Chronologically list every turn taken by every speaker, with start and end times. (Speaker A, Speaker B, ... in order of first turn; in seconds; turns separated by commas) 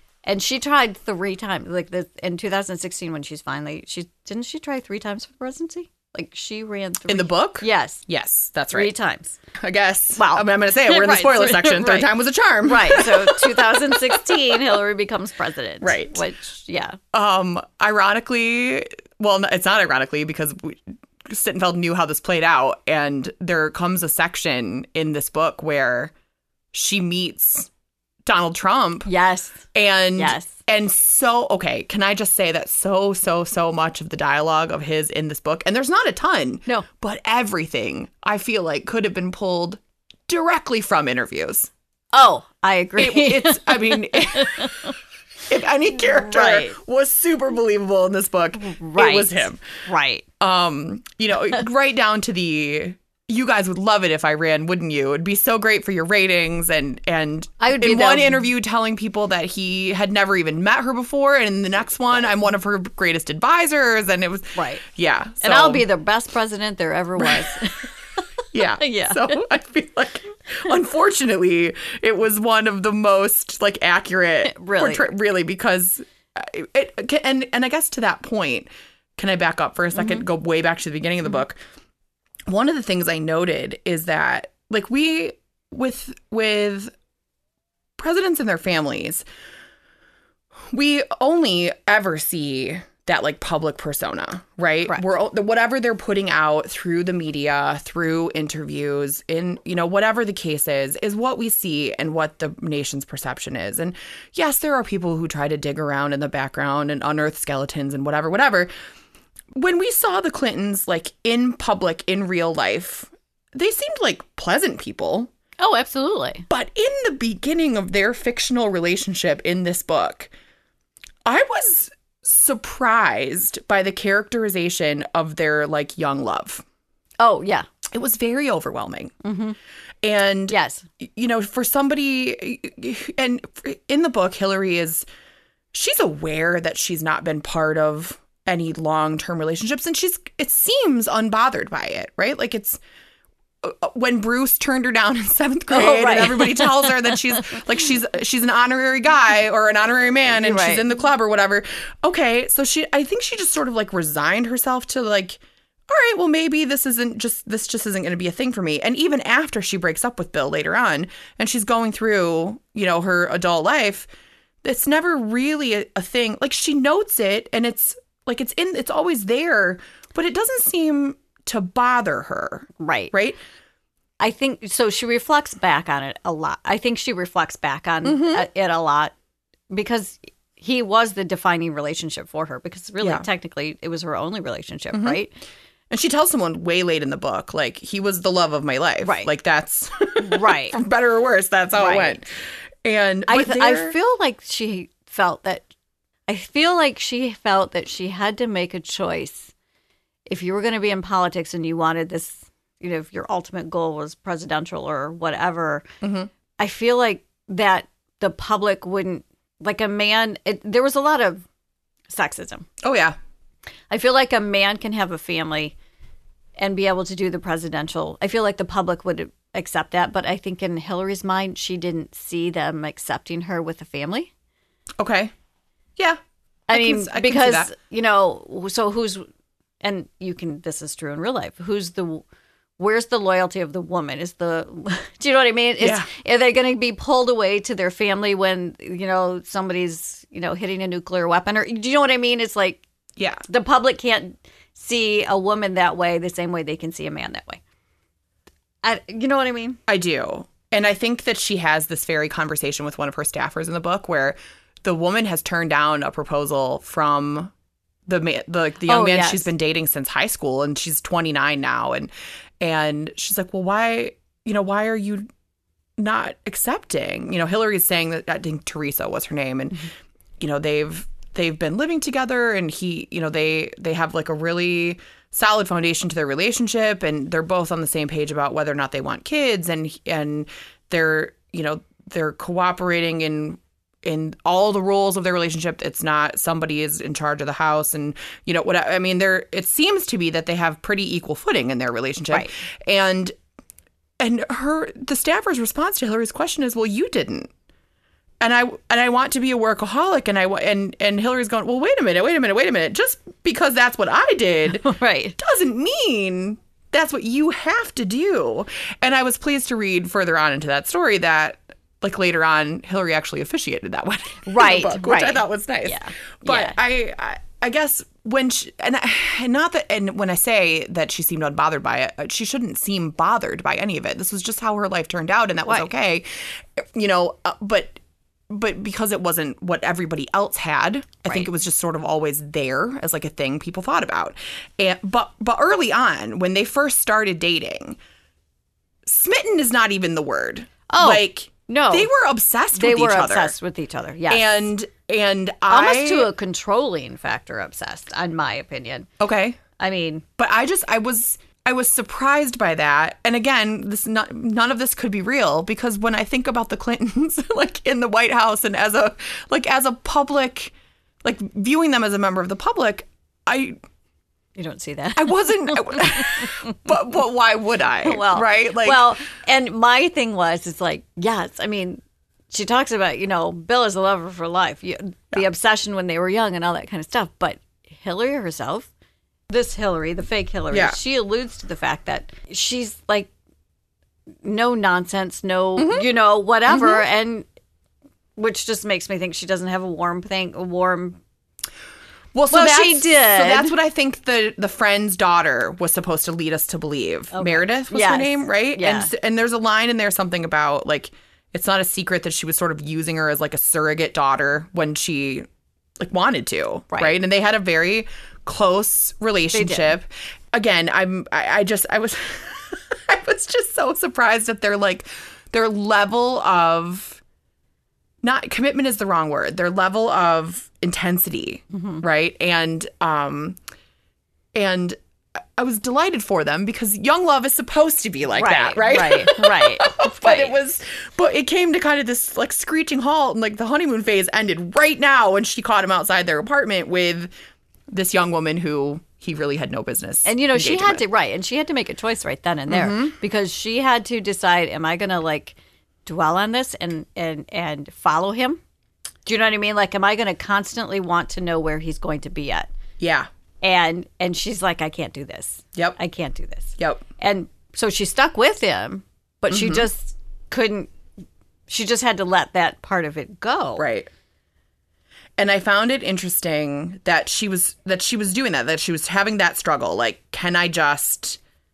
Speaker A: 0.2-8.1, Speaker B: 7.1-8.9, Speaker A: 8.7-9.4, Speaker B: 9.6-14.6, Speaker A: 10.2-12.1, Speaker A: 12.6-17.0, Speaker B: 15.8-16.2, Speaker B: 17.1-26.1, Speaker B: 26.7-27.7, Speaker B: 28.2-29.1, Speaker A: 29.1-30.5, Speaker B: 29.7-41.7, Speaker A: 42.1-44.9, Speaker B: 43.0-44.8, Speaker B: 45.5-49.6, Speaker A: 46.1-46.8, Speaker A: 48.5-50.2, Speaker B: 50.4-65.8, Speaker A: 57.6-58.5, Speaker A: 64.5-64.8, Speaker A: 65.4-67.9, Speaker B: 67.2-67.5, Speaker B: 68.5-81.6, Speaker A: 68.8-69.4, Speaker A: 74.4-75.1, Speaker B: 82.5-86.9, Speaker B: 88.0-89.2, Speaker B: 90.7-108.7, Speaker B: 109.5-115.3, Speaker A: 115.6-116.5, Speaker B: 116.5-120.3, Speaker B: 121.2-126.6, Speaker A: 127.2-127.7, Speaker B: 127.9-129.1, Speaker A: 129.2-129.6, Speaker B: 130.0-135.0, Speaker A: 130.5-130.8, Speaker B: 135.7-142.8, Speaker B: 143.6-164.1, Speaker A: 145.7-147.2, Speaker A: 150.3-150.8, Speaker B: 164.6-173.4, Speaker A: 172.8-173.1, Speaker A: 174.2-179.1, Speaker B: 178.0-178.4, Speaker A: 179.7-185.3, Speaker B: 184.9-185.2, Speaker B: 185.9-192.3, Speaker A: 189.0-189.3, Speaker A: 190.2-190.8, Speaker A: 191.7-192.2, Speaker B: 192.8-194.0, Speaker A: 193.3-195.7, Speaker A: 196.3-199.5, Speaker A: 200.3-205.8, Speaker B: 206.0-206.3, Speaker A: 206.6-211.4, Speaker A: 212.1-212.7, Speaker B: 212.8-213.2, Speaker A: 213.9-215.8, Speaker A: 216.6-224.3, Speaker B: 225.0-225.3, Speaker B: 226.0-227.7, Speaker A: 226.7-229.3, Speaker A: 229.8-232.2, Speaker A: 232.8-242.8, Speaker B: 235.8-236.1, Speaker B: 243.2-243.4, Speaker A: 243.5-247.6, Speaker A: 248.8-249.8, Speaker B: 249.9-257.5, Speaker B: 258.1-265.3, Speaker A: 258.9-259.5, Speaker B: 266.0-269.9, Speaker B: 270.4-293.3, Speaker B: 294.2-297.5, Speaker B: 298.4-338.0, Speaker A: 304.7-305.4, Speaker A: 314.4-316.8, Speaker B: 339.0-343.5, Speaker A: 340.9-342.1, Speaker A: 342.7-344.6, Speaker B: 344.3-346.3, Speaker A: 345.7-349.1, Speaker B: 349.2-349.6, Speaker A: 349.8-350.2, Speaker B: 350.4-363.8, Speaker A: 364.6-366.7, Speaker B: 365.1-369.1, Speaker A: 368.0-378.9, Speaker A: 379.5-383.3, Speaker B: 380.7-381.0, Speaker A: 384.4-387.4, Speaker B: 385.8-386.1, Speaker B: 386.7-387.0, Speaker A: 388.4-391.2, Speaker B: 392.3-405.4, Speaker A: 392.5-393.7, Speaker A: 397.3-399.1, Speaker B: 406.0-417.2, Speaker A: 406.9-407.2, Speaker A: 409.5-409.9, Speaker B: 418.2-423.6, Speaker A: 421.7-422.0, Speaker B: 424.5-425.0, Speaker B: 425.6-437.3, Speaker A: 428.3-430.5, Speaker B: 437.9-441.0, Speaker A: 440.2-448.6, Speaker B: 442.7-443.1, Speaker A: 449.2-452.7, Speaker B: 453.0-453.3, Speaker A: 453.6-460.9, Speaker B: 456.8-457.0, Speaker B: 459.5-459.9, Speaker A: 461.7-463.9, Speaker B: 463.8-464.1, Speaker B: 465.4-471.4